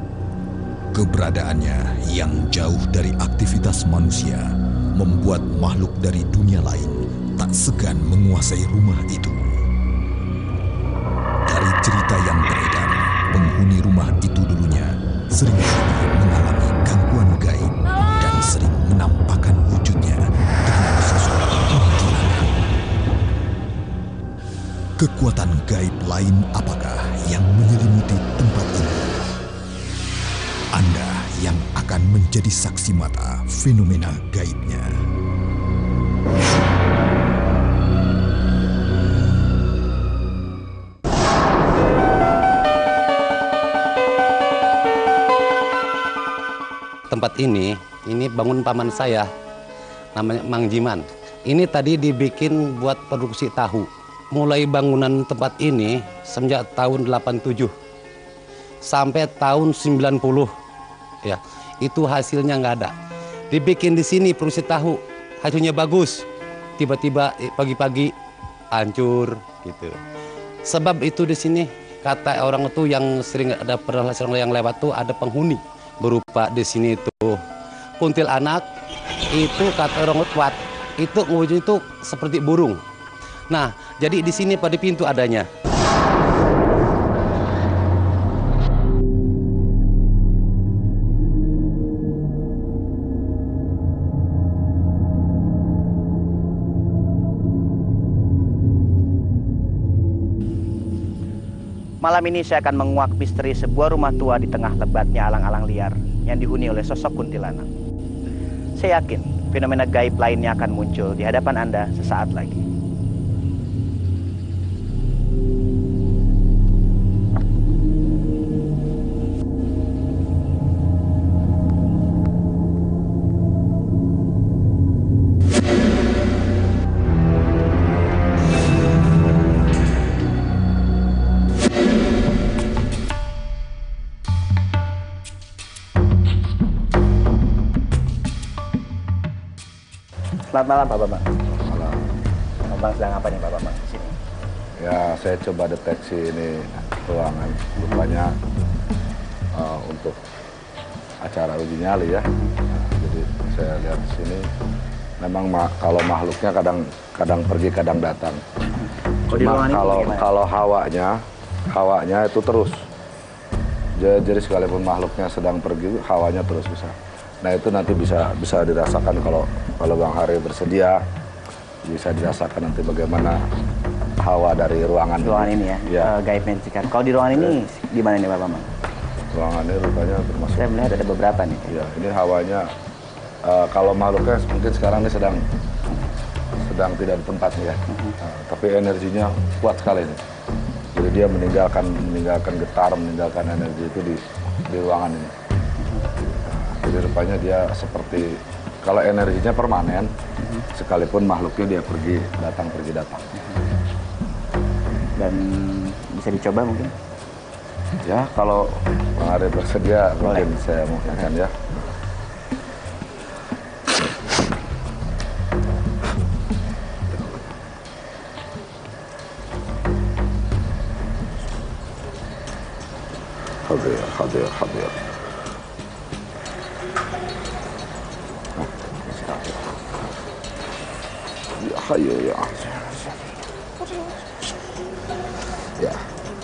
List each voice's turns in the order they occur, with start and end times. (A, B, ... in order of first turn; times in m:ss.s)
0:00.9-0:09.4 A
0:11.5-0:22.5 A
0:25.0-0:29.3 A
0:30.7-0:34.9 A
0:47.1-0:49.3 B
0:50.2-0:57.7 B
0:58.9-1:00.5 B
1:01.2-1:02.9 B
1:03.5-1:06.2 B
1:06.8-1:08.1 B
1:08.7-1:10.0 B
1:10.7-1:17.4 B
1:18.0-1:18.6 B
1:19.3-1:22.8 B
1:23.5-1:25.5 B
1:42.0-1:47.7 C
1:48.8-1:52.6 C
2:20.5-2:21.3 C
2:21.5-2:22.1 D
2:22.6-2:24.2 C
2:24.8-2:28.4 D
2:29.5-2:30.2 D
2:31.2-2:34.5 D
2:35.2-2:38.4 D
2:38.8-2:40.3 C
2:39.3-2:41.2 D
2:41.7-2:42.9 D
2:44.0-2:51.0 D
2:51.9-2:53.4 D
2:54.2-2:56.1 D
2:55.2-2:58.7 C
2:59.3-3:00.7 D
3:00.5-3:01.7 C
3:01.7-3:02.7 D
3:03.4-3:05.4 D
3:06.6-3:10.2 D
3:07.9-3:08.2 C
3:10.9-3:15.3 D
3:16.4-3:20.1 D
3:20.4-3:20.7 C
3:20.7-3:23.3 D
3:25.2-3:26.9 C
3:28.0-3:31.9 D
3:30.2-3:30.5 C
3:37.1-3:37.6 D
3:43.6-3:45.0 D
3:48.6-3:50.0 D
3:51.6-3:53.3 D
3:53.8-3:54.1 D
3:55.8-3:56.0 D